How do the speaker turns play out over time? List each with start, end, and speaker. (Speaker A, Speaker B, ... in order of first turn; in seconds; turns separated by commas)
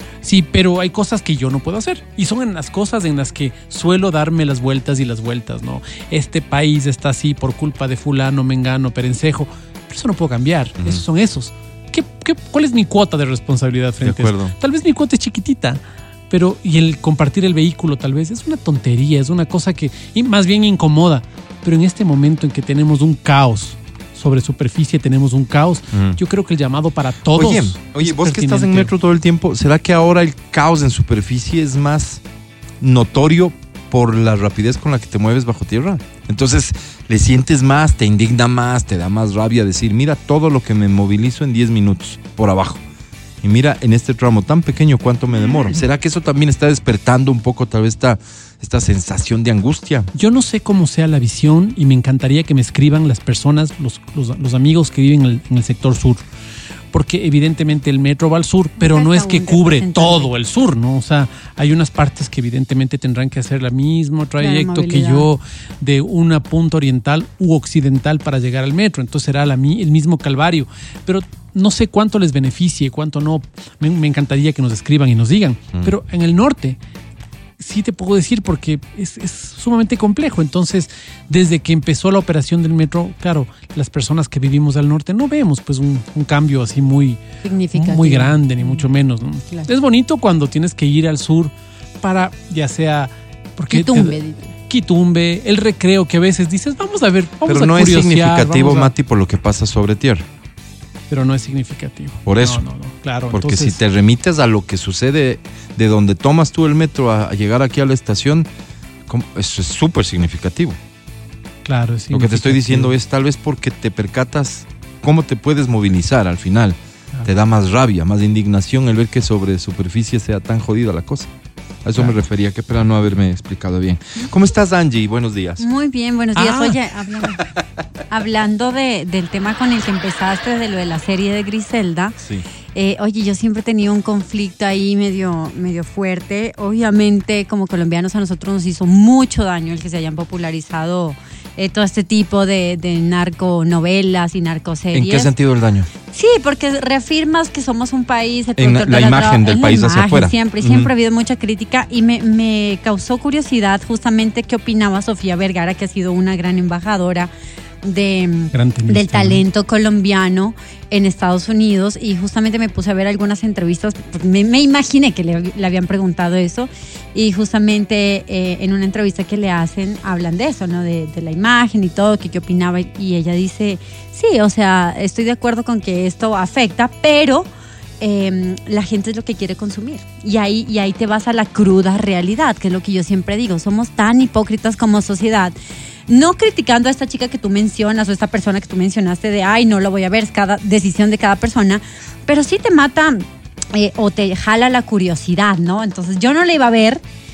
Speaker A: 0.2-28.9, Speaker B: 14.0-14.5, Speaker B: 27.3-32.2, Speaker B: 32.8-42.8, Speaker B: 43.4-50.1, Speaker A: 50.1-56.2, Speaker A: 56.9-76.8, Speaker C: 58.8-60.3, Speaker C: 64.4-65.3, Speaker A: 77.6-87.2, Speaker C: 87.4-88.9, Speaker A: 87.7-98.9, Speaker C: 93.7-94.5, Speaker B: 97.5-100.2, Speaker A: 101.1-103.8, Speaker B: 102.2-102.6, Speaker B: 103.3-108.5, Speaker B: 109.1-110.8, Speaker A: 111.6-112.9, Speaker B: 112.1-121.3, Speaker B: 121.8-125.6, Speaker C: 125.6-127.5, Speaker A: 126.3-126.8, Speaker C: 128.1-132.2, Speaker C: 132.7-145.3, Speaker B: 144.9-145.9, Speaker C: 146.1-157.3, Speaker B: 148.6-150.9, Speaker C: 157.8-177.5, Speaker A: 158.5-159.4, Speaker C: 178.0-185.5, Speaker C: 186.1-197.0